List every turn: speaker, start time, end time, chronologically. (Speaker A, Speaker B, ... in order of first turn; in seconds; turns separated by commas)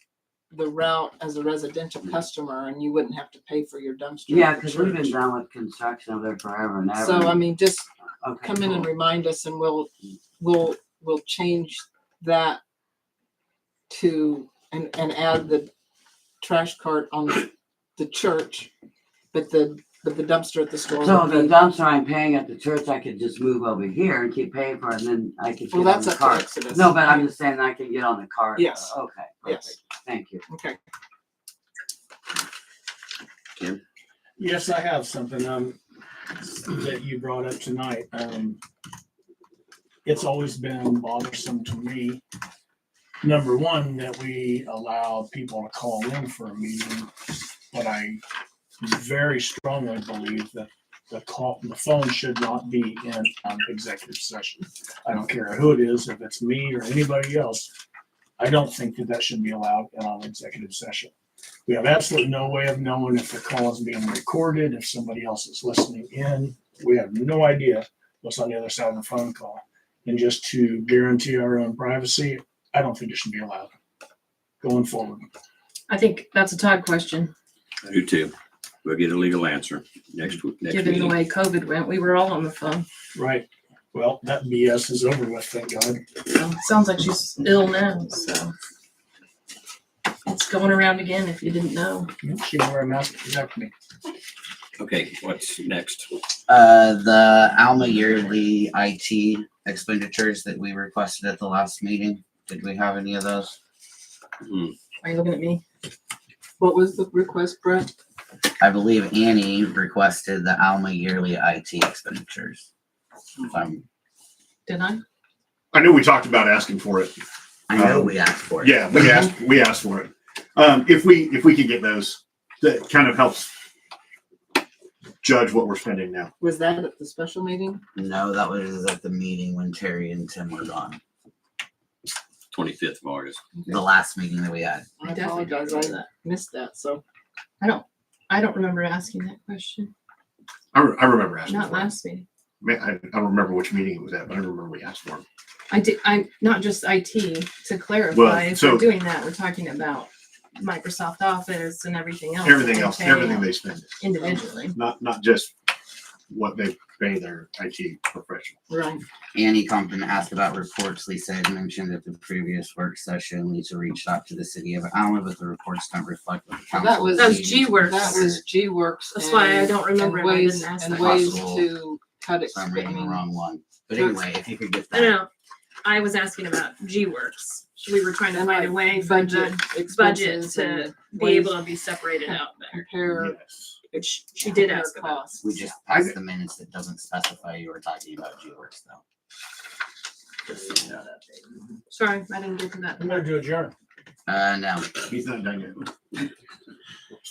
Speaker A: 0.5-5.2, Speaker B: 4.3-7.5, Speaker A: 7.0-7.9, Speaker B: 8.2-8.9, Speaker A: 8.4-12.6, Speaker A: 13.9-15.7, Speaker A: 16.4-18.7, Speaker A: 19.3-21.6, Speaker B: 21.0-30.4, Speaker A: 25.7-27.2, Speaker A: 28.5-29.7, Speaker A: 30.5-30.8, Speaker C: 34.4-35.8, Speaker C: 36.4-38.6, Speaker C: 40.0-42.2, Speaker C: 43.2-47.1, Speaker C: 47.7-48.2, Speaker C: 48.8-57.7, Speaker C: 58.4-61.1, Speaker C: 61.7-73.7, Speaker C: 74.6-75.2, Speaker D: 75.9-77.3, Speaker E: 77.8-81.2, Speaker D: 80.7-82.8, Speaker C: 83.1-86.0, Speaker D: 86.2-88.5, Speaker D: 90.2-92.1, Speaker C: 92.2-93.7, Speaker E: 94.8-96.1, Speaker F: 96.5-103.6, Speaker E: 104.5-104.7, Speaker D: 105.0-105.6, Speaker A: 106.6-107.9, Speaker F: 108.6-112.7, Speaker F: 113.4-113.8, Speaker D: 114.7-115.0, Speaker G: 115.7-117.1, Speaker F: 117.7-118.8, Speaker G: 117.7-123.5, Speaker G: 125.2-126.3, Speaker A: 126.4-127.8, Speaker F: 127.9-131.0, Speaker E: 132.5-133.4, Speaker A: 133.6-133.8, Speaker F: 133.7-134.9, Speaker A: 135.0-137.0, Speaker D: 135.0-136.1, Speaker D: 137.6-139.9, Speaker G: 140.7-141.9, Speaker D: 141.5-142.2, Speaker G: 142.6-145.2, Speaker D: 145.7-154.8, Speaker G: 148.1-148.9, Speaker G: 152.4-154.0, Speaker G: 154.7-155.5, Speaker G: 156.3-158.6, Speaker A: 158.7-159.0, Speaker F: 159.3-168.4, Speaker A: 166.7-173.2, Speaker D: 167.2-168.2, Speaker D: 169.1-171.3, Speaker F: 170.9-171.7, Speaker F: 172.5-175.2, Speaker A: 174.0-174.2, Speaker D: 174.9-175.3, Speaker D: 175.8-182.8, Speaker A: 178.3-181.5, Speaker A: 182.2-183.4, Speaker G: 183.1-183.7, Speaker A: 183.9-185.7, Speaker D: 183.9-185.2, Speaker F: 185.4-189.0, Speaker G: 185.9-186.1, Speaker D: 191.9-193.2, Speaker C: 193.0-193.7, Speaker F: 194.3-194.9, Speaker G: 195.0-195.9